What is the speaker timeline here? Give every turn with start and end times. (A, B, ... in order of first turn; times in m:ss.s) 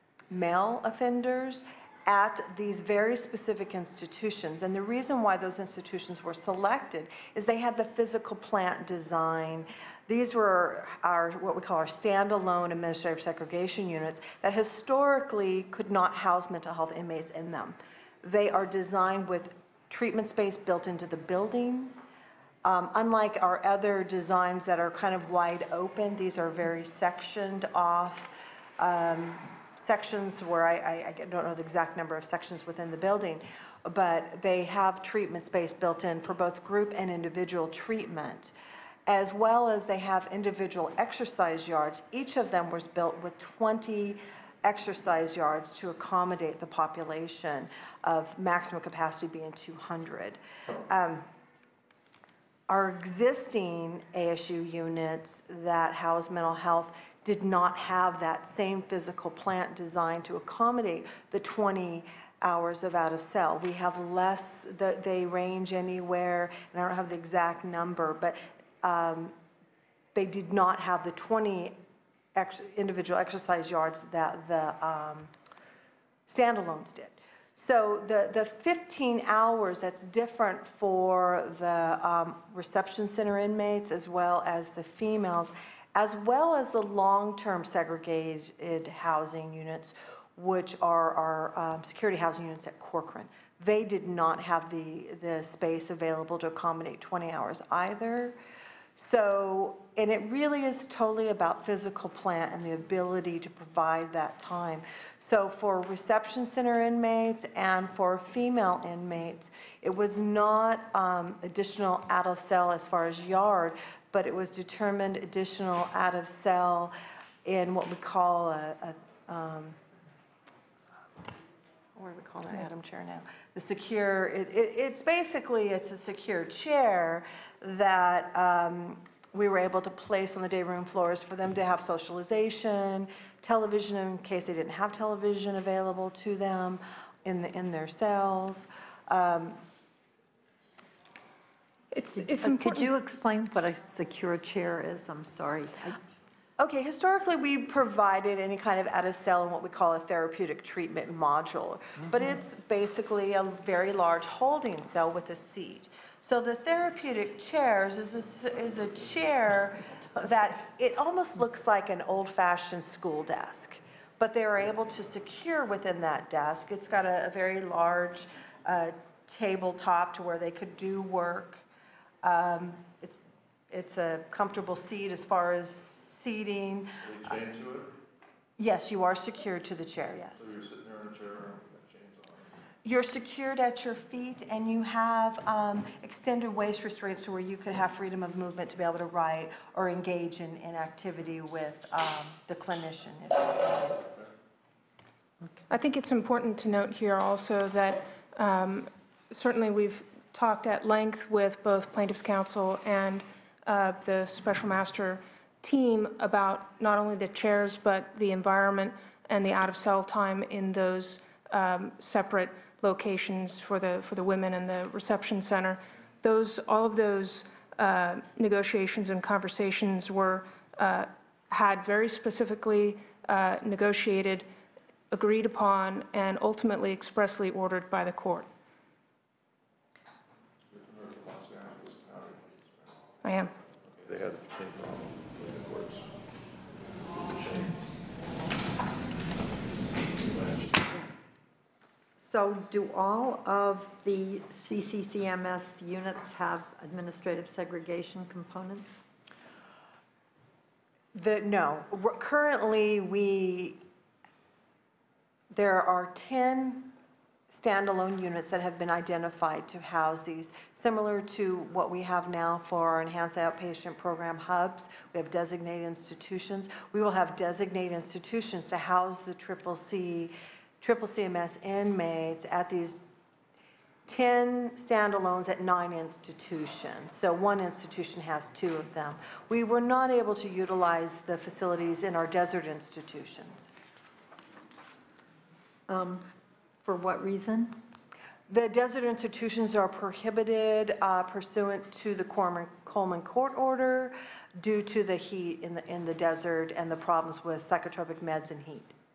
0:00.3-0:22.0 A
0:22.6-0:38.5 A
0:39.1-0:51.2 A
0:52.7-1:09.3 A
1:10.1-1:11.8 A
1:12.4-1:15.3 A
1:16.3-1:38.4 A
1:39.0-1:56.9 A
1:57.4-1:59.8 A
2:02.0-2:19.6 A
2:21.9-2:22.9 B
2:22.4-2:26.0 C
2:26.6-2:51.6 A
2:52.2-2:53.2 A
2:53.7-2:57.0 A
2:57.0-2:58.0 D
2:58.6-3:00.5 A
3:00.4-3:02.4 D
3:02.8-3:14.1 A
3:15.7-3:44.5 B
3:45.1-3:48.5 B
3:50.7-3:53.0 D
3:53.2-3:53.5 B
3:53.9-3:56.1 D
3:57.2-3:57.9 D
4:00.0-4:00.9 D
4:02.2-4:09.0 C
4:11.2-4:13.8 A
4:15.5-4:16.9 A
4:17.5-4:33.0 A
4:34.0-4:43.7 A
4:45.9-4:46.3 C
4:46.8-4:47.8 C
4:48.5-4:58.9 A